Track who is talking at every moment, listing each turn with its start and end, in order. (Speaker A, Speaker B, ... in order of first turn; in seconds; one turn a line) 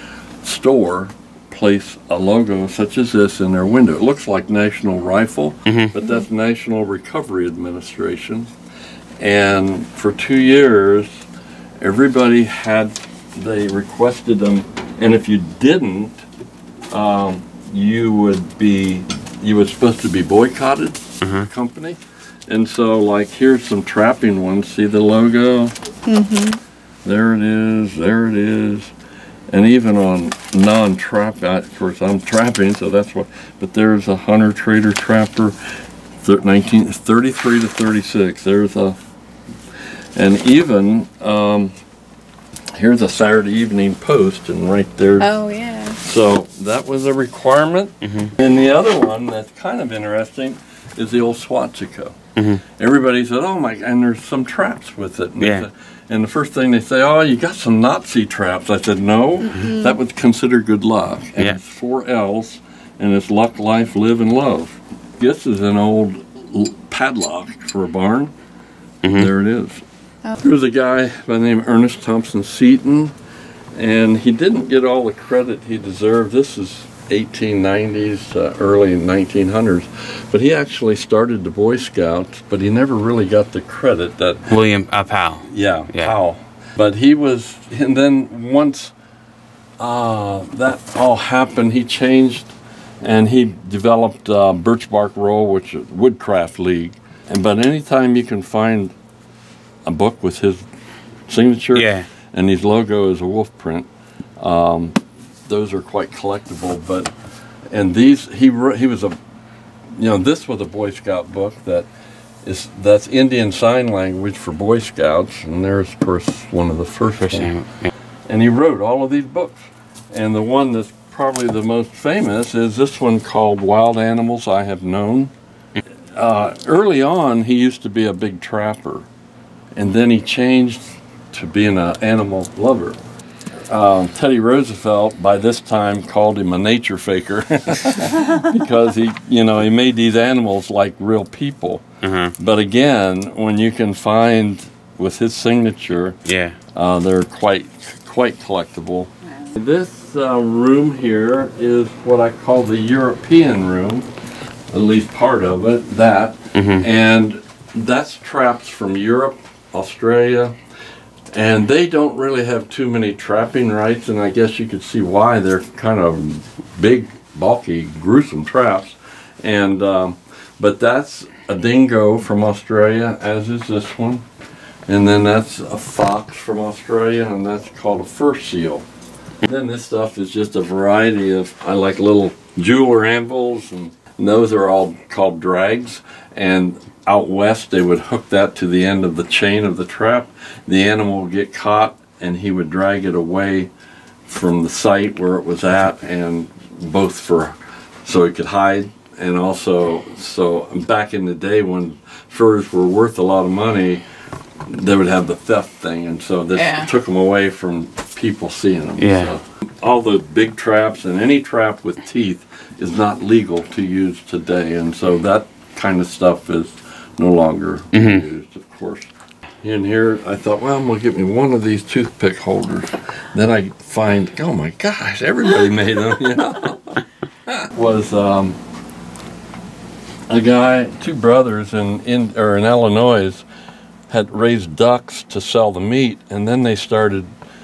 Speaker A: 0.4-8.5
Speaker B: 5.7-5.9
Speaker A: 9.2-11.2
Speaker A: 11.8-16.2
Speaker A: 16.9-25.7
Speaker B: 21.2-21.5
Speaker C: 26.1-26.6
Speaker A: 27.0-28.9
Speaker A: 29.5-39.0
Speaker A: 40.1-41.7
Speaker A: 42.7-45.3
Speaker C: 45.2-46.0
Speaker A: 46.0-52.2
Speaker B: 48.0-48.3
Speaker B: 52.4-52.6
Speaker A: 52.7-68.3
Speaker B: 55.4-55.6
Speaker C: 59.5-60.0
Speaker B: 69.0-69.3
Speaker A: 69.1-69.8
Speaker A: 70.4-73.1
Speaker A: 73.7-84.6
Speaker B: 84.5-86.1
Speaker A: 85.4-88.9
Speaker A: 89.8-99.0
Speaker A: 99.8-100.7
Speaker A: 101.3-107.1
Speaker B: 101.7-102.1
Speaker A: 107.7-109.2
Speaker A: 109.9-111.9
Speaker A: 112.4-117.5
Speaker B: 117.2-117.9
Speaker A: 118.3-125.3
Speaker A: 126.1-129.1
Speaker A: 129.7-133.0
Speaker A: 133.7-141.8
Speaker B: 142.0-142.3
Speaker A: 142.4-146.2
Speaker B: 146.2-146.6
Speaker A: 146.7-154.1
Speaker A: 154.7-160.6
Speaker B: 156.5-156.8
Speaker A: 161.3-174.2
Speaker A: 174.9-178.8
Speaker A: 179.4-193.7
Speaker A: 194.2-204.0
Speaker A: 204.6-219.1
Speaker C: 206.5-206.9
Speaker B: 209.0-209.3
Speaker B: 217.9-218.2
Speaker A: 219.6-228.6
Speaker A: 230.3-233.4
Speaker A: 234.1-237.3